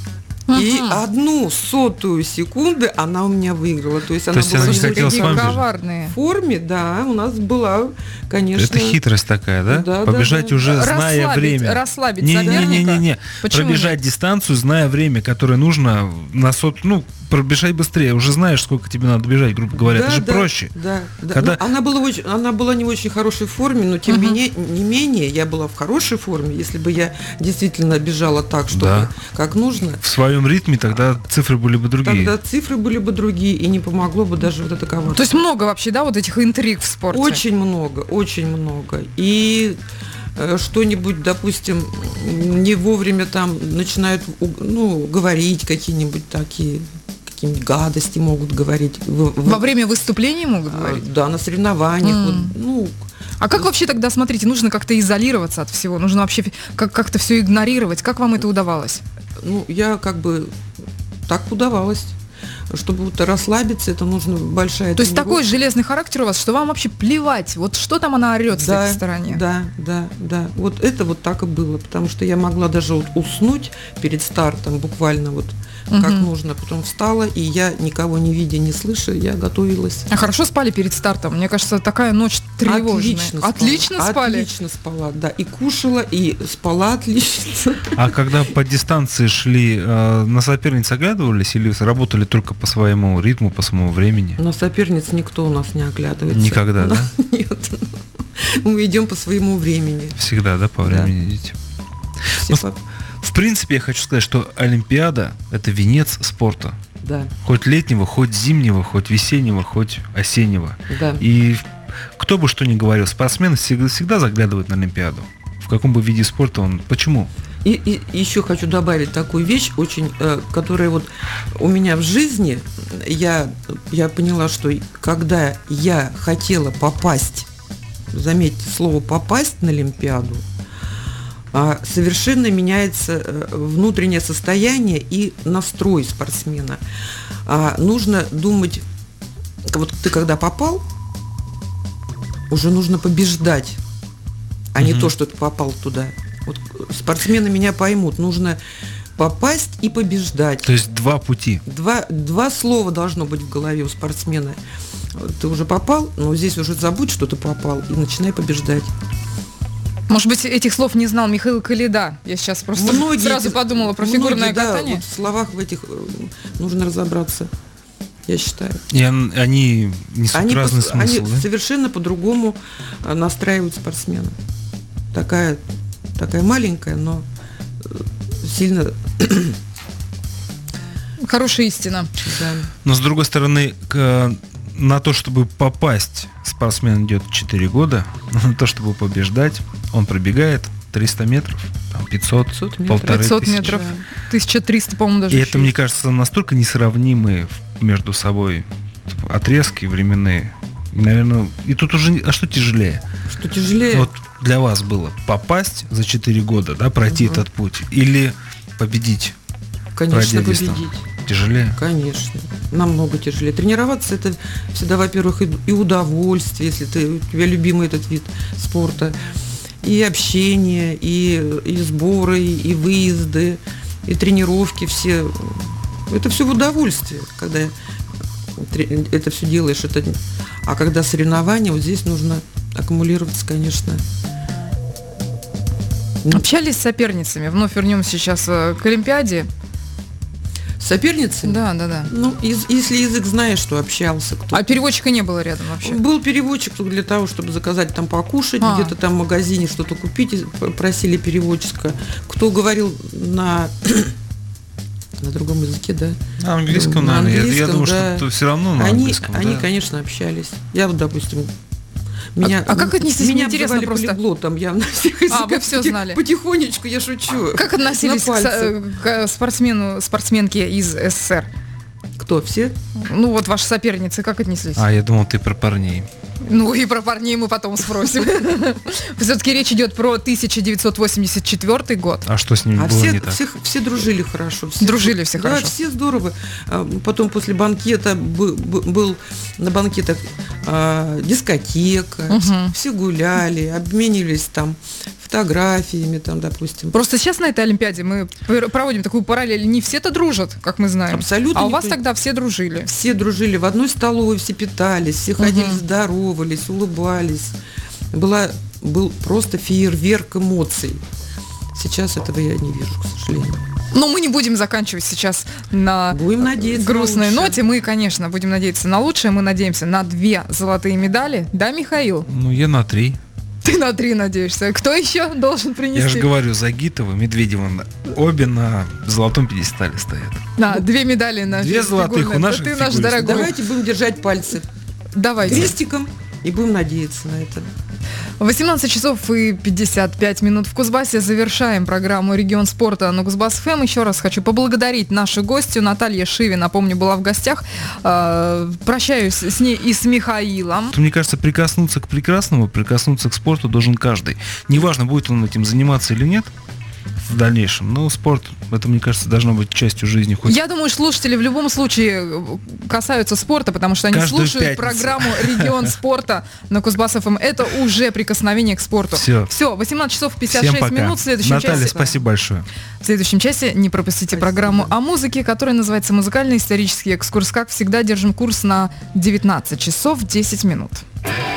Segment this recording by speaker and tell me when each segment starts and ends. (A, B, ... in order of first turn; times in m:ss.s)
0:00.5-0:01.0 A
0:00.5-0:09.0 B
0:04.3-0:05.6 C
0:04.6-0:06.2 A
0:08.6-0:20.7 C
0:09.7-0:10.6 B
0:10.6-0:13.9 A
0:12.4-0:12.8 B
0:19.8-0:30.0 B
0:21.3-0:21.6 C
0:24.1-0:24.4 A
0:28.7-0:29.1 C
0:30.0-0:32.3 C
0:32.0-0:35.2 B
0:35.1-0:37.4 A
0:37.1-0:39.8 B
0:40.4-0:49.6 B
0:49.4-0:51.0 A
0:50.7-0:53.0 B
0:52.0-0:52.5 A
0:53.4-0:59.0 A
0:59.4-1:00.5 B
1:01.3-1:02.1 B
1:02.7-1:05.4 B
1:05.0-1:09.4 A
1:08.5-1:20.1 B
1:15.9-1:16.3 A
1:20.1-1:24.5 A
1:22.6-1:28.2 B
1:27.9-1:34.4 C
1:34.4-1:40.2 B
1:36.3-1:37.1 C
1:40.2-1:41.5 C
1:40.8-1:41.1 B
1:42.3-1:42.8 B
1:42.3-1:42.6 C
1:43.2-1:46.8 C
1:47.0-1:47.3 B
1:47.4-1:51.6 C
1:50.9-1:51.2 B
1:52.2-1:57.3 C
1:57.6-2:07.5 B
2:08.1-2:10.4 B
2:11.5-2:16.8 B
2:17.4-2:18.8 B
2:19.7-2:20.8 B
2:22.5-2:23.8 B
2:24.7-2:28.6 B
2:24.8-2:25.1 C
2:29.2-2:30.7 B
2:30.6-2:31.6 C
2:31.7-2:34.6 B
2:35.1-2:38.9 B
2:40.1-2:45.0 A
2:42.8-2:47.5 B
2:48.3-2:48.8 B
2:48.9-2:51.4 C
2:50.3-2:54.4 B
2:55.1-2:55.6 B
2:56.2-2:57.2 B
2:57.8-2:59.6 B
3:01.2-3:02.1 A
3:02.2-3:02.7 B
3:02.8-3:13.8 C
3:12.5-3:14.0 B
3:13.0-3:15.7 A
3:15.3-3:23.0 C
3:23.3-3:24.1 B
3:23.9-3:29.4 C
3:27.1-3:27.4 B
3:29.9-3:31.0 B
3:30.1-3:31.8 C
3:31.8-3:39.2 B
3:39.8-3:47.7 B
3:48.6-3:54.0 B
3:56.3-3:59.5 A
4:00.8-4:04.6 B
4:01.4-4:02.1 A
4:04.5-4:06.0 A
4:05.8-4:14.1 B
4:08.6-4:08.9 A
4:15.2-4:21.5 B
4:16.4-4:19.7 C
4:22.3-4:28.8 B
4:22.4-4:24.2 A
4:25.3-4:26.2 A
4:27.5-4:31.5 A
4:32.2-4:32.8 B
4:33.0-4:34.8 A
4:34.8-4:36.1 C
4:36.4-4:42.3 A
4:42.3-4:43.4 C
4:42.8-4:56.9 B
4:44.8-4:45.7 A
4:52.3-4:52.7 A
4:56.9-5:02.9 A
5:01.1-5:02.0 B
5:02.9-5:07.6 B
5:05.4-5:05.8 A
5:08.1-5:11.0 B
5:11.7-5:13.6 B
5:13.9-5:22.3 A
5:16.1-5:17.6 B
5:22.3-5:23.2 C
5:23.6-5:26.3 A
5:25.9-5:30.5 C
5:30.6-5:33.5 A
5:31.5-5:33.5 C
5:33.2-5:34.6 B
5:35.1-5:35.7 A
5:35.4-5:37.7 B
5:38.4-5:50.9 A
5:50.9-5:56.5 C
5:57.2-6:00.6 C
6:00.4-6:12.1 A
6:04.1-6:05.9 C
6:09.1-6:09.5 C
6:10.5-6:12.7 C
6:11.5-6:12.1 B
6:13.0-6:21.0 A
6:14.3-6:14.9 B